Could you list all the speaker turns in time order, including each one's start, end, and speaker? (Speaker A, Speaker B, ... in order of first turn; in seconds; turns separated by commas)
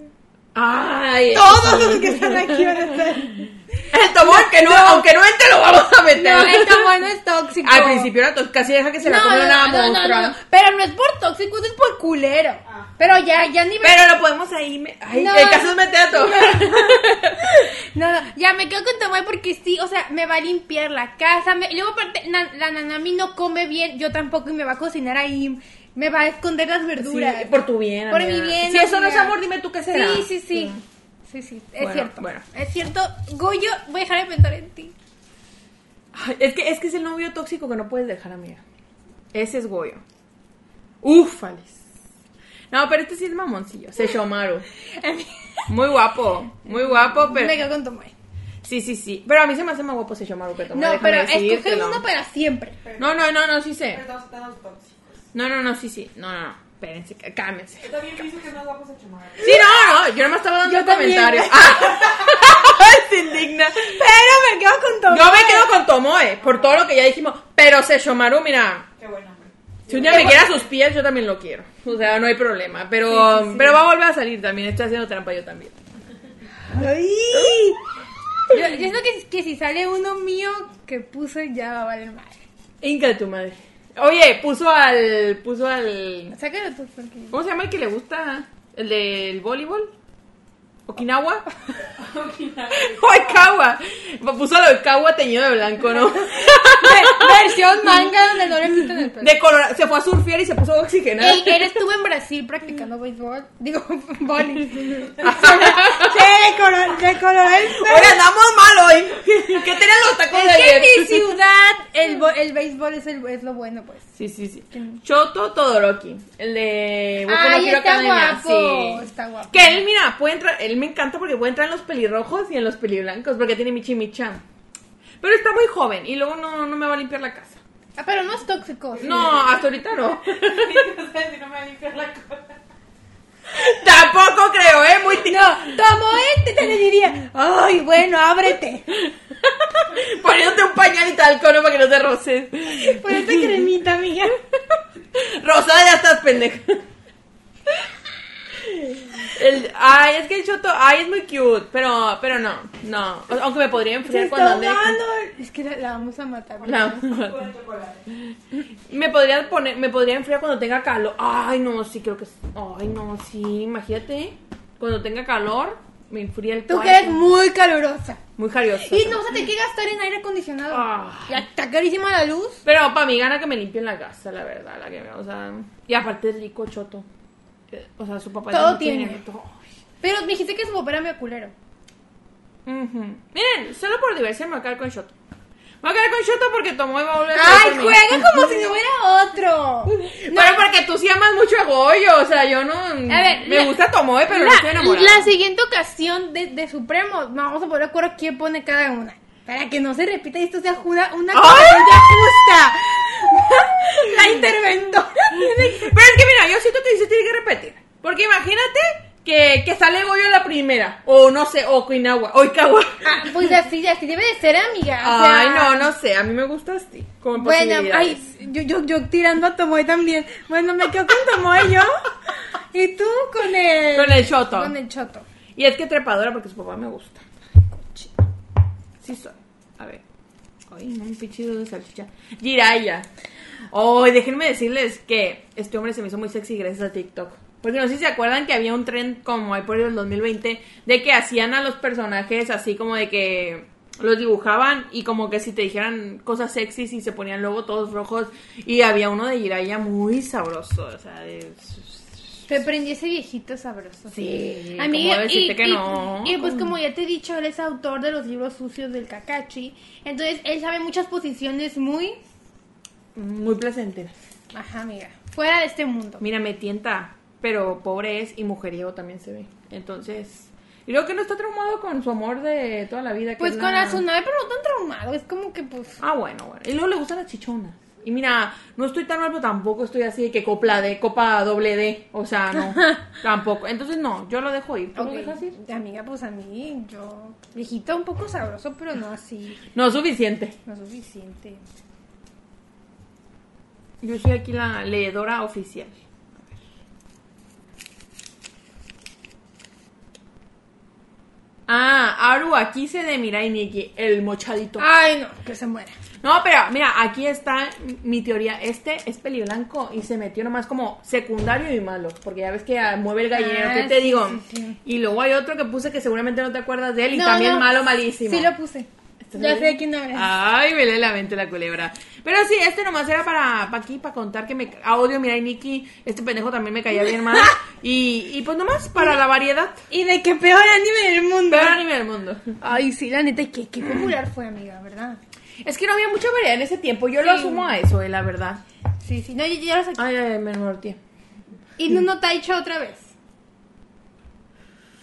Speaker A: 0.5-2.8, Speaker B: 1.3-3.5, Speaker A: 3.9-6.9, Speaker B: 4.2-5.1, Speaker B: 6.1-8.1, Speaker A: 7.6-10.4, Speaker B: 9.0-14.1, Speaker A: 13.8-17.6, Speaker B: 15.1-27.5, Speaker A: 27.0-30.8, Speaker B: 28.1-29.4, Speaker B: 29.9-34.9, Speaker A: 31.8-32.4, Speaker A: 36.1-38.6, Speaker A: 39.3-40.0, Speaker A: 41.0-41.8, Speaker A: 42.7-44.6, Speaker B: 45.0-45.6, Speaker A: 45.7-47.6, Speaker B: 46.9-48.1, Speaker A: 48.6-52.0, Speaker B: 50.7-52.8, Speaker C: 52.8-53.2, Speaker A: 53.0-54.0, Speaker C: 53.9-55.2, Speaker A: 55.3-58.2, Speaker C: 57.8-59.5, Speaker B: 59.4-59.8, Speaker A: 59.4-64.0, Speaker B: 60.6-62.0, Speaker B: 63.8-65.7, Speaker A: 65.1-68.9, Speaker C: 69.0-70.6, Speaker A: 69.9-75.7, Speaker B: 70.1-70.4, Speaker B: 73.1-73.8, Speaker B: 76.6-77.8, Speaker A: 77.3-77.7, Speaker B: 78.5-82.4, Speaker A: 82.8-86.3, Speaker B: 86.3-87.3, Speaker A: 87.3-89.9, Speaker A: 90.9-91.5, Speaker C: 91.9-93.5, Speaker A: 92.7-98.1, Speaker B: 96.2-99.3, Speaker A: 98.7-101.8, Speaker B: 101.2-108.2, Speaker A: 105.2-106.3, Speaker A: 107.6-111.4, Speaker B: 110.3-114.1, Speaker A: 114.2-124.4, Speaker B: 114.7-115.0, Speaker B: 117.2-119.8, Speaker A: 125.2-127.6, Speaker B: 128.0-129.3, Speaker A: 129.0-130.8, Speaker C: 129.1-129.3, Speaker C: 130.3-132.6, Speaker A: 133.5-135.7, Speaker B: 135.2-138.9, Speaker A: 138.9-143.7, Speaker B: 142.7-144.4, Speaker A: 145.1-146.8, Speaker A: 148.6-155.0, Speaker B: 154.0-157.1, Speaker A: 156.6-157.5, Speaker C: 157.0-158.1, Speaker A: 158.5-167.3, Speaker B: 166.7-168.2, Speaker A: 168.4-169.4, Speaker B: 168.8-172.6, Speaker A: 170.7-171.4, Speaker A: 172.6-177.1, Speaker A: 177.7-179.6, Speaker B: 178.5-179.2, Speaker B: 180.0-181.5, Speaker A: 182.7-185.1, Speaker A: 185.8-188.6, Speaker B: 187.3-190.6, Speaker A: 189.9-195.3, Speaker B: 193.1-206.0, Speaker A: 201.3-202.4, Speaker A: 204.1-204.4, Speaker A: 205.3-213.5, Speaker B: 213.0-215.9, Speaker A: 215.0-218.2, Speaker B: 217.4-222.0, Speaker B: 222.7-225.2, Speaker A: 223.9-224.7, Speaker A: 225.5-227.2, Speaker B: 227.7-228.1, Speaker A: 229.0-230.0, Speaker A: 230.7-233.1, Speaker A: 233.7-252.4, Speaker B: 252.5-262.2, Speaker A: 254.1-256.7, Speaker A: 263.1-264.1, Speaker B: 264.5-266.2, Speaker A: 266.2-274.0, Speaker B: 273.4-276.0, Speaker A: 276.0-285.6, Speaker B: 284.9-289.6, Speaker A: 289.7-290.6, Speaker B: 290.6-291.6, Speaker A: 294.0-296.4, Speaker A: 301.7-304.8, Speaker B: 304.8-305.9, Speaker A: 306.2-318.5, Speaker B: 313.3-314.8, Speaker B: 317.1-320.3, Speaker A: 319.2-329.8, Speaker B: 327.1-327.6, Speaker B: 329.9-331.8, Speaker A: 331.5-332.5, Speaker B: 332.6-335.2, Speaker A: 335.6-338.6, Speaker B: 337.2-337.8, Speaker B: 339.0-340.0, Speaker A: 340.0-341.0, Speaker B: 341.8-343.1